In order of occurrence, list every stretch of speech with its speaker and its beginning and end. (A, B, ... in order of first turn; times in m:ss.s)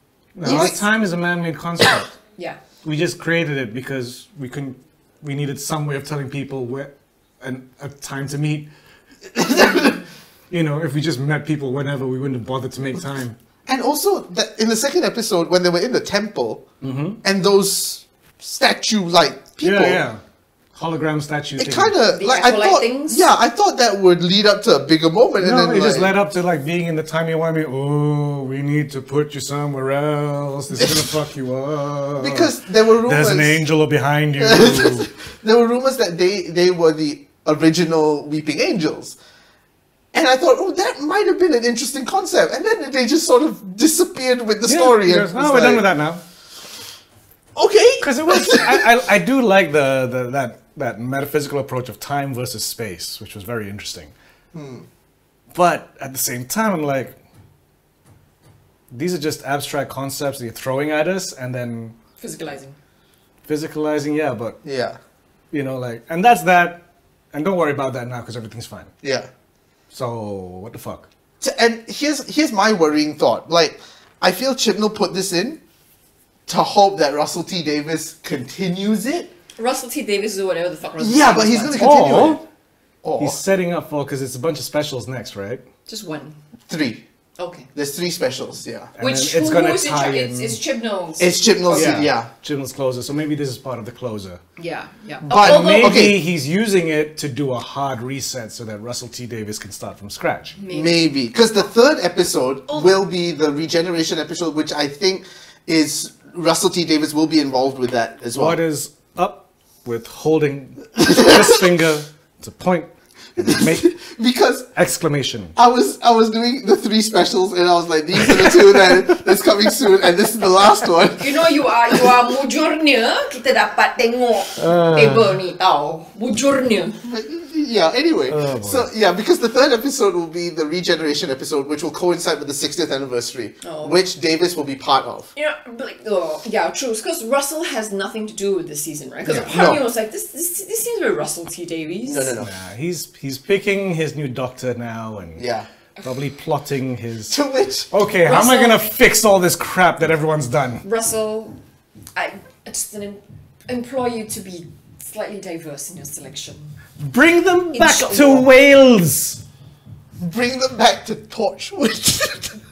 0:00.4-0:02.1 A
0:00.4-0:00.8 B
0:02.8-0:08.7 A
0:09.4-0:10.0 B
0:10.5-0:13.4 A
0:13.7-0:16.6 B
0:16.8-0:17.2 A
0:17.2-0:20.0 B
0:19.6-0:20.2 A
0:20.8-0:21.9 A
0:21.6-0:26.1 B
0:22.1-0:23.3 C
0:25.4-0:35.1 A
0:30.8-0:31.1 B
0:32.2-0:33.6 B
0:34.4-0:39.2 B
0:40.1-0:45.9 B
0:44.6-0:46.2 A
0:47.6-0:48.9 B
0:48.0-0:54.1 A
0:54.5-0:54.9 B
0:55.5-0:57.1 A
0:58.9-1:02.0 A
1:02.2-1:02.8 C
1:03.5-1:04.6 A
1:04.6-1:05.0 B
1:05.5-1:08.9 A
1:09.0-1:09.3 B
1:09.9-1:11.1 A
1:11.4-1:15.6 B
1:16.5-1:19.3 B
1:19.6-1:22.1 C
1:21.0-1:22.4 B
1:21.8-1:22.4 A
1:23.0-1:23.4 B
1:23.2-1:25.6 A
1:25.9-1:26.4 C
1:26.7-1:27.0 B
1:27.4-1:27.7 C
1:27.8-1:28.9 B
1:29.0-1:30.6 A
1:29.0-1:32.0 C
1:31.2-1:32.3 B
1:31.7-1:34.4 A
1:34.6-1:36.0 C
1:35.3-1:36.3 B
1:35.3-1:40.6 A
1:40.6-1:41.1 C
1:40.7-1:48.6 B
1:48.4-1:54.0 A
1:51.0-1:51.6 B
1:53.4-1:54.7 B
1:54.8-1:55.5 A
1:55.6-2:02.1 B
1:58.3-1:59.0 A
2:01.2-2:07.0 C
2:04.6-2:05.4 A
2:07.0-2:15.3 B
2:08.3-2:08.9 A
2:13.6-2:14.0 C
2:15.4-2:22.3 C
2:19.3-2:19.9 B
2:22.0-2:22.5 B
2:22.4-2:25.5 A
2:25.4-2:25.7 B
2:26.0-2:27.4 A
2:27.3-2:27.9 B
2:27.9-2:30.8 A
2:28.2-2:28.8 C
2:30.8-2:31.6 C
2:32.2-2:36.7 C
2:37.0-2:39.4 A
2:37.7-2:38.5 C
2:40.2-2:42.6 B